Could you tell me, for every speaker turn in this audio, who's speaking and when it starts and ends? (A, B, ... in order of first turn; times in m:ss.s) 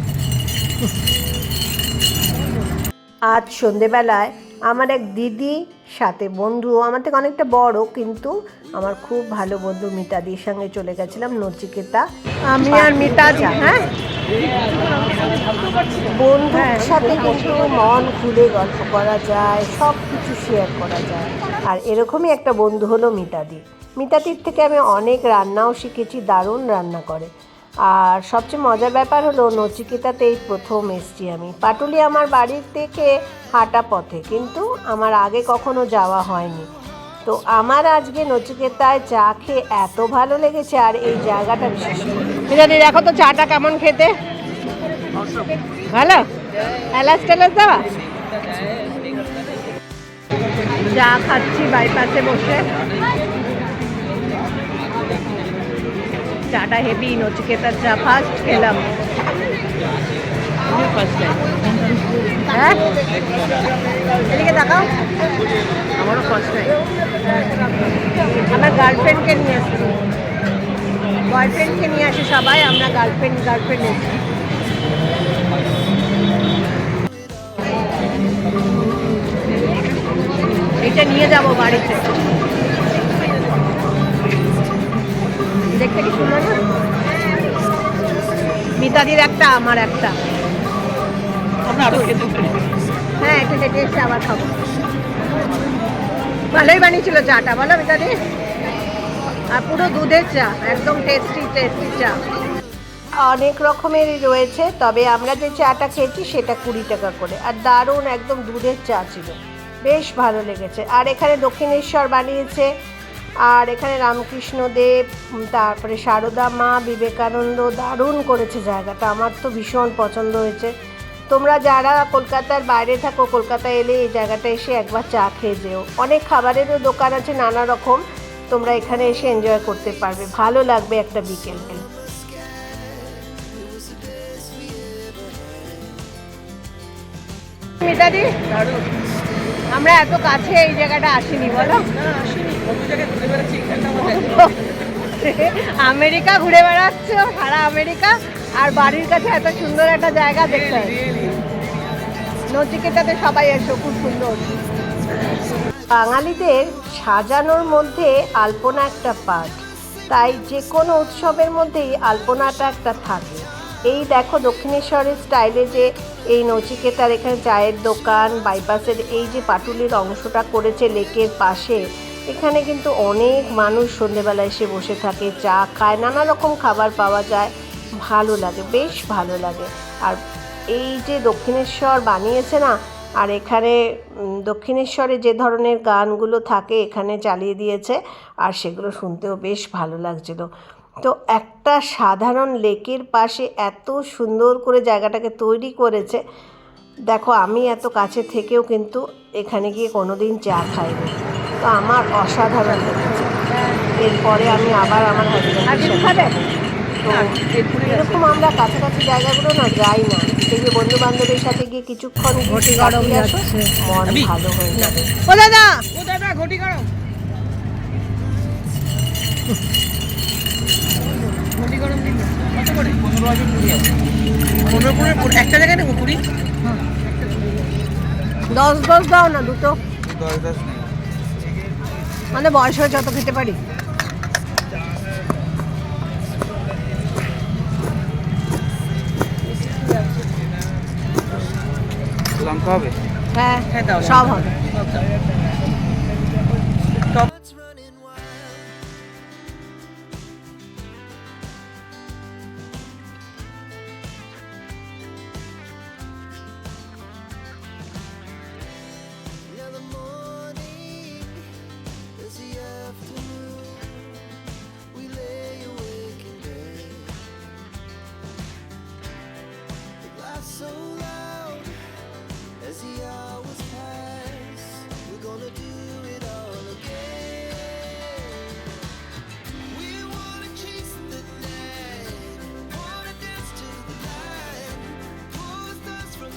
0:03.3-0:13.8 A
0:12.6-0:13.9 B
0:15.0-0:15.2 B
0:15.1-0:15.9 C
0:16.0-0:27.3 A
0:16.5-0:17.1 B
0:27.9-0:36.7 A
0:37.2-0:42.4 A
0:42.4-0:44.2 B
0:45.9-0:46.3 B
0:46.9-0:47.9 B
0:50.8-0:52.7 B
0:56.5-0:58.9 B
1:02.4-1:03.2 B
1:04.3-1:05.1 B
1:06.0-1:10.0 B
1:11.3-1:14.2 B
1:20.8-1:22.1 B
1:25.7-1:26.6 B
1:28.8-1:30.2 B
1:31.6-1:32.7 C
1:31.8-1:32.2 B
1:33.2-1:34.6 B
1:36.5-1:38.2 B
1:39.5-1:42.2 B
1:43.2-1:52.7 A
1:53.5-2:00.7 A
2:01.3-2:11.9 A
2:17.8-2:18.6 B
2:18.6-2:18.9 C
2:19.7-2:22.0 B
2:21.7-2:24.5 C
2:23.9-2:31.2 B
2:30.7-2:31.4 C
2:32.5-2:34.6 B
2:35.9-3:00.2 A
3:00.7-3:10.5 A
3:11.0-3:16.2 A
3:17.1-3:23.4 A
3:24.0-3:26.5 A
3:25.7-3:26.4 B
3:27.0-3:35.1 A
3:27.1-3:28.3 C
3:32.5-3:33.7 B
3:34.8-3:35.9 B
3:35.9-3:36.9 C
3:41.5-3:43.9 C
3:44.6-3:46.3 C
3:46.9-3:47.5 C
3:48.5-3:49.8 B
3:50.1-3:50.8 C
3:52.3-3:53.6 B
4:02.4-4:03.0 C
4:03.3-4:04.5 B
4:03.7-4:05.0 C